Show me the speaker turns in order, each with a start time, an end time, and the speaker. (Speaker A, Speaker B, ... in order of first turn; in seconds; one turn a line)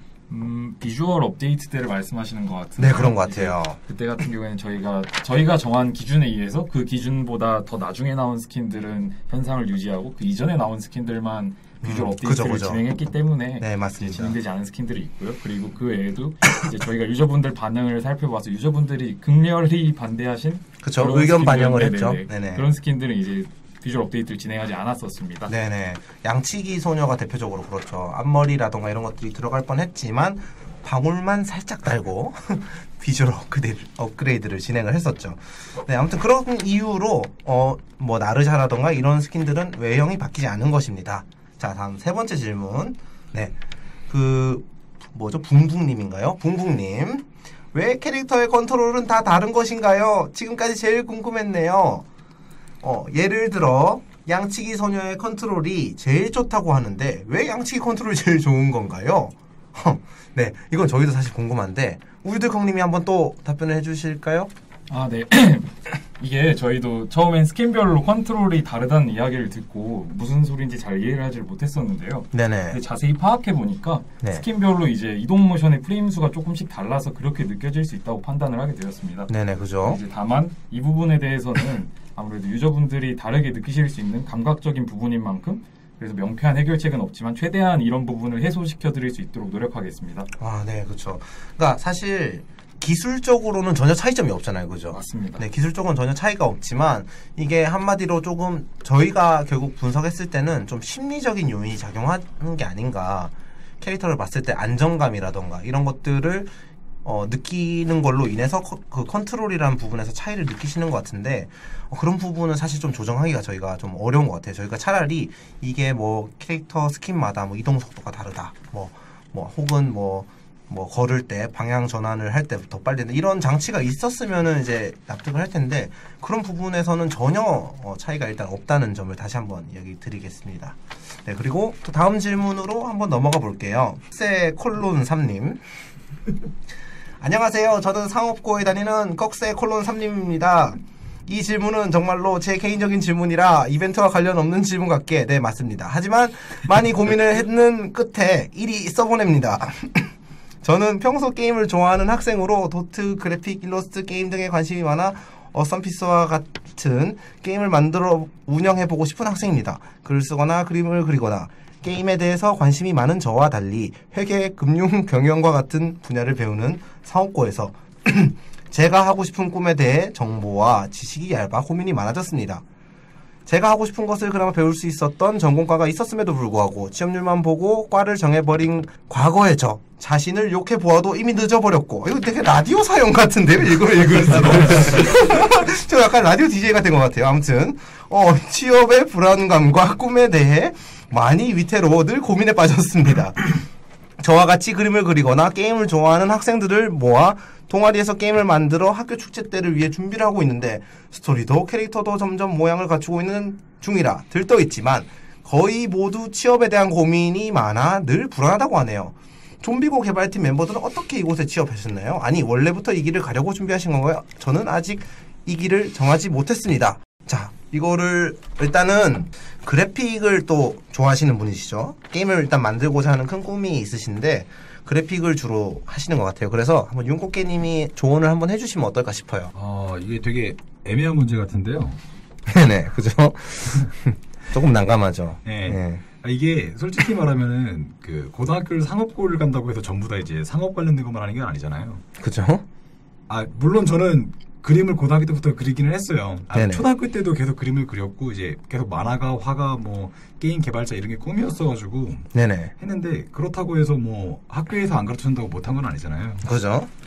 Speaker A: 0.3-25.5
Speaker B: 2.8-3.8
Speaker B: 11.8-12.8
Speaker B: 13.6-14.3
Speaker B: 20.8-22.6
Speaker B: 25.5-43.5
Speaker B: 44.1-52.0
Speaker B: 52.8-64.5
Speaker A: 64.9-90.3
Speaker B: 72.3-72.8
Speaker B: 79.3-80.0
Speaker B: 90.4-106.5
Speaker A: 94.9-95.4
Speaker B: 107.0-135.6
Speaker B: 137.2-150.1
Speaker B: 150.6-172.6
Speaker B: 173.4-193.6
Speaker B: 194.2-229.5
Speaker C: 229.5-232.0
Speaker B: 232.4-236.0
Speaker C: 235.4-242.0
Speaker B: 242.2-242.6
Speaker C: 243.3-256.4
Speaker B: 246.5-246.8
Speaker B: 252.3-252.7
Speaker B: 256.4-256.9